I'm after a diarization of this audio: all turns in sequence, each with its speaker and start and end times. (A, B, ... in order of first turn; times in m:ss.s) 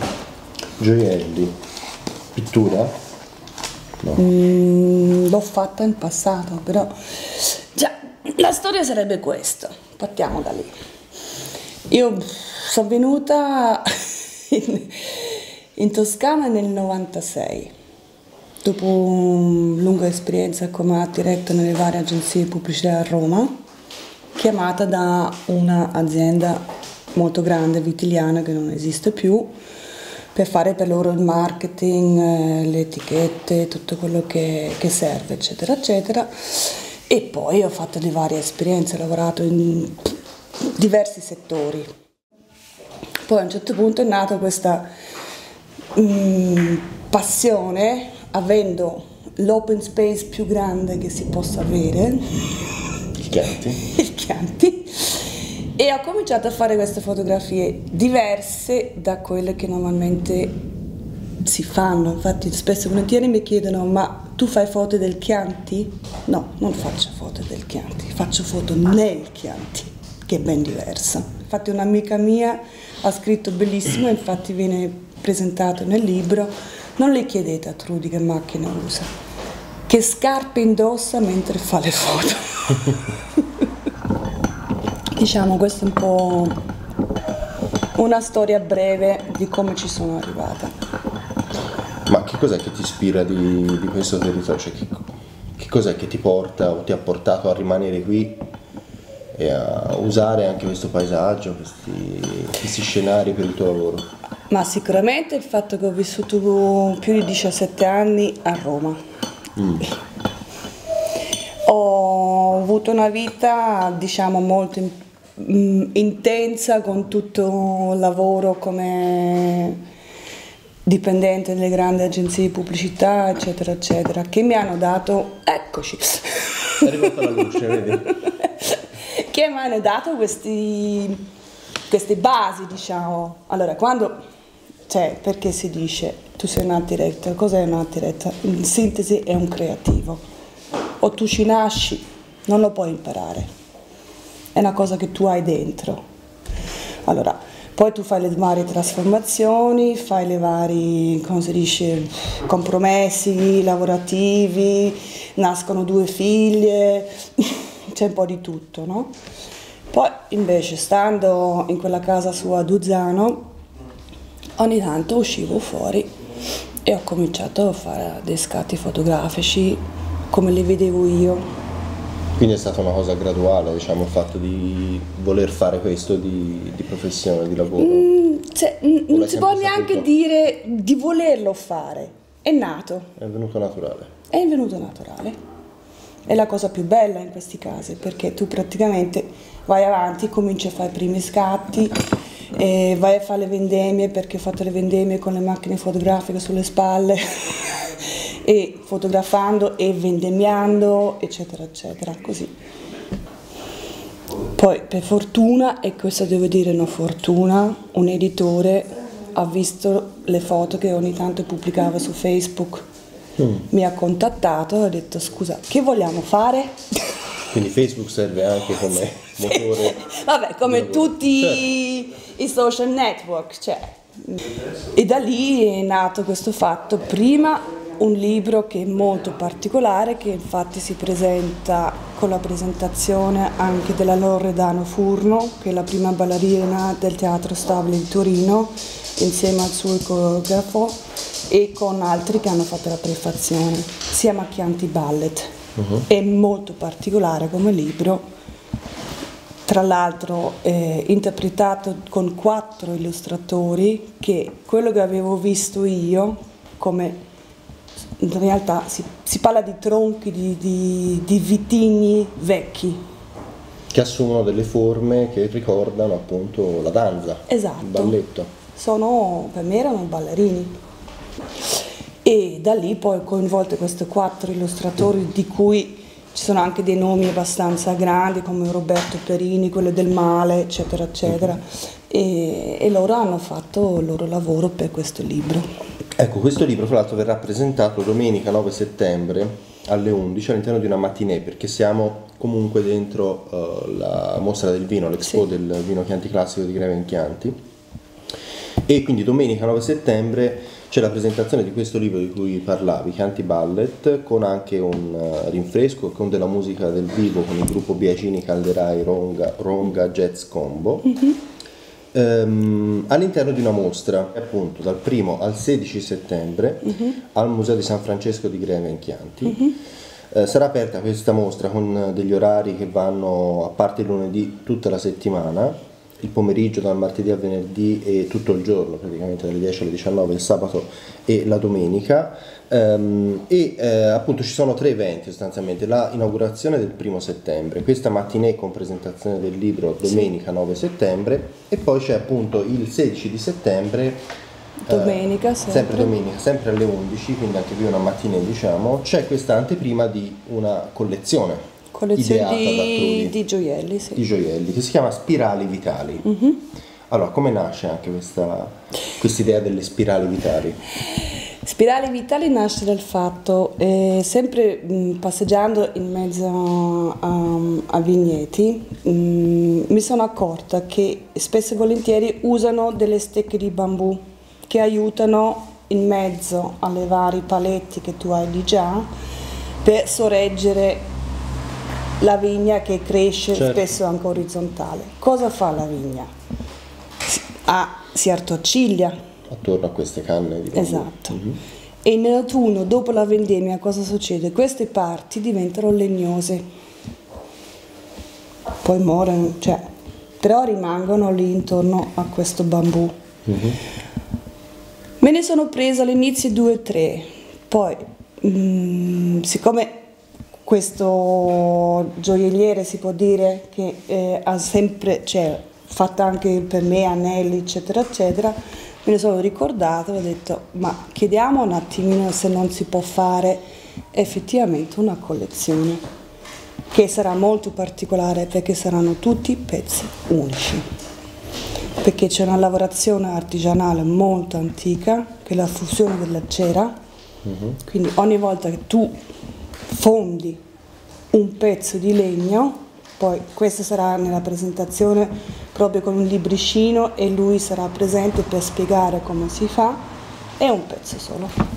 0:00.8-0:01.5 A
0:02.3-0:02.9 A
0:04.2-0:10.7 B
0:11.9-0:13.9 B
0:14.5-0:17.7 B
0:18.6-0:23.5 B
0:24.4-0:26.6 B
0:27.1-0:29.5 B
0:30.3-0:40.2 B
0:40.7-0:41.9 B
0:43.2-0:44.8 B
0:46.0-0:52.2 B
0:53.2-0:53.8 A
0:53.9-1:00.5 B
1:01.4-1:19.1 B
1:19.9-1:23.0 B
1:25.2-1:26.6 B
1:27.9-1:30.7 B
1:32.1-1:38.4 A
1:39.3-1:44.1 A
1:44.5-1:49.0 B
1:51.6-1:59.8 B
2:00.8-2:11.2 B
2:06.8-2:08.1 A
2:11.9-2:14.1 B
2:14.9-2:20.2 B
2:21.0-2:23.5 B
2:24.5-2:26.0 B
2:27.0-2:39.1 B
2:39.9-2:43.5 B
2:44.6-2:46.1 B
2:46.8-2:51.4 B
2:52.4-2:58.1 A
2:57.8-3:03.1 B
2:59.1-3:00.1 A
3:03.2-3:04.1 A
3:04.3-3:05.4 B
3:06.3-3:11.9 B
3:12.6-3:22.5 B
3:24.6-3:32.8 B
3:33.4-3:33.6 A
3:33.7-3:36.8 B
3:37.5-3:40.0 A
3:39.4-3:44.4 B
3:40.6-3:41.6 A
3:44.9-4:01.0 B
4:01.5-4:05.5 B
4:05.8-4:06.0 A
4:06.1-4:08.2 B
4:09.6-4:17.2 B
4:18.2-4:23.0 B
4:23.9-4:28.5 A
4:27.5-4:28.2 B
4:28.7-4:30.8 B
4:32.2-4:45.7 B
4:41.2-4:41.6 A
4:46.2-4:57.6 A
4:58.9-5:11.1 A
5:11.1-5:11.4 B
5:12.1-5:19.7 A
5:20.3-5:44.2 A
5:44.8-5:46.1 B
5:44.9-5:51.6 A
5:51.9-5:54.2 B
5:52.2-5:53.3 A
5:54.1-5:56.2 A
5:56.2-5:56.6 B
5:57.1-6:00.8 A
6:01.2-6:19.1 B
6:19.8-6:21.1 B
6:22.2-6:26.3 B
6:23.5-6:23.8 A
6:27.3-6:29.1 B
6:29.5-6:31.6 A
6:30.7-6:31.4 B
6:32.0-6:36.6 B
6:38.8-6:39.8 B
6:40.4-6:43.1 B
6:43.4-6:43.8 A
6:45.2-6:50.0 B
6:50.6-7:06.0 B
7:06.9-7:10.8 B
7:12.0-7:16.9 B
7:17.4-7:17.8 A
7:17.8-7:19.1 B
7:19.9-7:20.6 B
7:21.3-7:30.0 B
7:30.6-7:31.5 B